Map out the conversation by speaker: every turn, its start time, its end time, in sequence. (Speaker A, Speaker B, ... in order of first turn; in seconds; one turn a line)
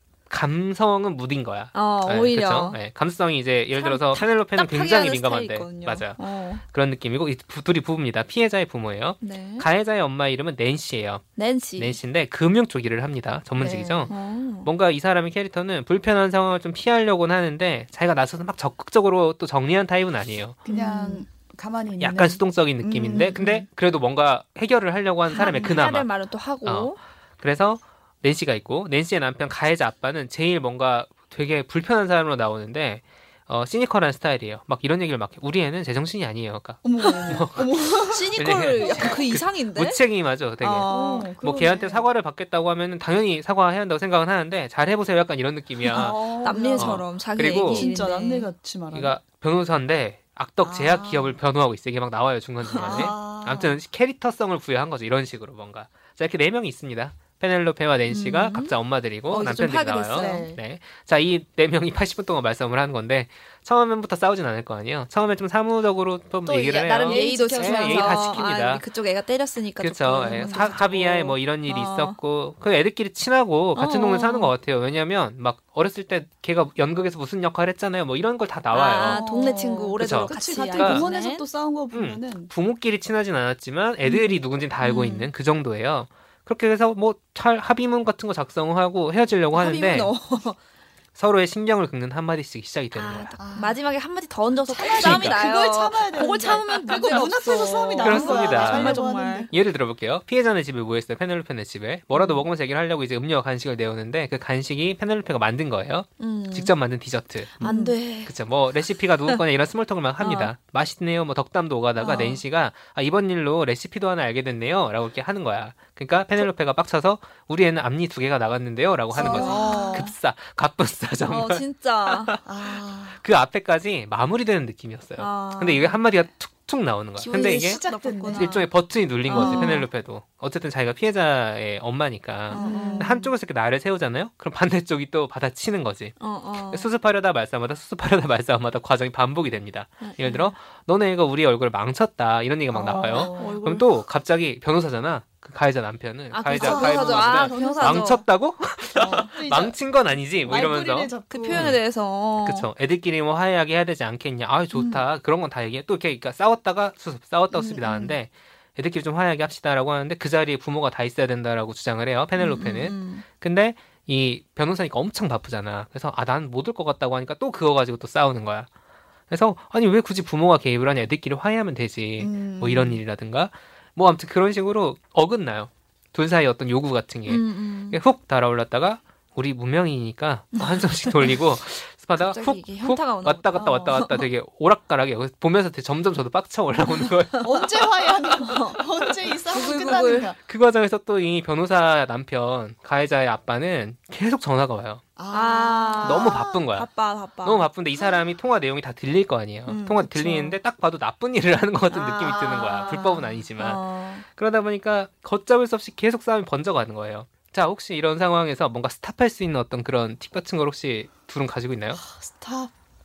Speaker A: 0.3-11.2
Speaker B: 1.7-2.8
Speaker B: 3.7-6.6
Speaker B: 9.2-9.7
Speaker B: 11.4-12.0
Speaker A: 11.8-20.6
Speaker C: 13.6-14.1
Speaker B: 14.1-14.7
Speaker B: 20.6-21.2
Speaker C: 20.6-23.6
Speaker A: 22.0-26.1
Speaker B: 23.2-23.6
Speaker B: 25.3-27.0
Speaker C: 25.4-25.9
Speaker A: 26.6-37.7
Speaker C: 36.8-38.3
Speaker B: 38.0-40.0
Speaker A: 38.3-46.2
Speaker C: 38.8-39.2
Speaker B: 40.6-41.3
Speaker C: 40.9-42.0
Speaker B: 45.9-48.5
Speaker C: 45.9-47.1
Speaker A: 46.8-47.9
Speaker C: 47.6-49.2
Speaker A: 48.9-68.8
Speaker C: 50.6-51.3
Speaker B: 52.7-53.1
Speaker C: 52.8-53.8
Speaker B: 58.1-58.8
Speaker B: 59.3-60.5
Speaker C: 60.1-60.6
Speaker C: 66.4-68.3
Speaker B: 66.7-72.2
Speaker A: 69.8-79.2
Speaker C: 70.2-70.8
Speaker B: 73.8-74.5
Speaker B: 78.7-81.5
Speaker C: 78.9-82.5
Speaker A: 80.0-81.0
Speaker A: 81.9-90.1
Speaker B: 84.8-85.3
Speaker B: 89.5-90.6
Speaker A: 91.1-93.3
Speaker B: 92.9-99.5
Speaker C: 93.4-93.8
Speaker C: 94.7-99.5
Speaker A: 95.0-95.4
Speaker A: 98.0-122.4
Speaker B: 102.1-102.4
Speaker B: 106.2-106.7
Speaker C: 107.6-108.0
Speaker B: 107.6-108.3
Speaker B: 110.2-110.5
Speaker B: 112.0-112.4
Speaker B: 119.1-120.1
Speaker C: 119.1-120.1
Speaker B: 121.3-122.4
Speaker C: 122.4-123.2
Speaker A: 123.2-136.1
Speaker B: 125.2-126.0
Speaker B: 127.2-128.6
Speaker C: 127.3-128.6
Speaker B: 129.2-129.9
Speaker C: 129.3-129.8
Speaker B: 132.5-133.2
Speaker C: 132.5-133.3
Speaker B: 136.2-136.9
Speaker A: 136.7-151.8
Speaker B: 140.0-140.5
Speaker C: 142.7-143.6
Speaker B: 142.8-144.0
Speaker B: 146.3-148.2
Speaker C: 146.6-148.2
Speaker C: 148.9-149.8
Speaker B: 149.0-149.3
Speaker C: 150.4-151.7
Speaker B: 151.3-152.7
Speaker A: 152.4-168.7
Speaker C: 154.7-155.0
Speaker B: 157.6-158.1
Speaker B: 162.4-163.2
Speaker A: 169.3-187.6
Speaker C: 172.2-173.0
Speaker B: 177.3-178.0
Speaker B: 180.5-181.4
Speaker B: 182.1-184.3
Speaker C: 183.6-183.9
Speaker C: 187.4-190.4
Speaker B: 188.3-188.8
Speaker B: 189.5-190.3
Speaker A: 190.4-195.0
Speaker C: 195.2-196.6
Speaker B: 195.3-197.7
Speaker A: 196.0-196.9
Speaker A: 197.4-212.0
Speaker B: 199.7-200.5
Speaker C: 201.9-203.4
Speaker B: 201.9-204.2
Speaker C: 212.0-212.7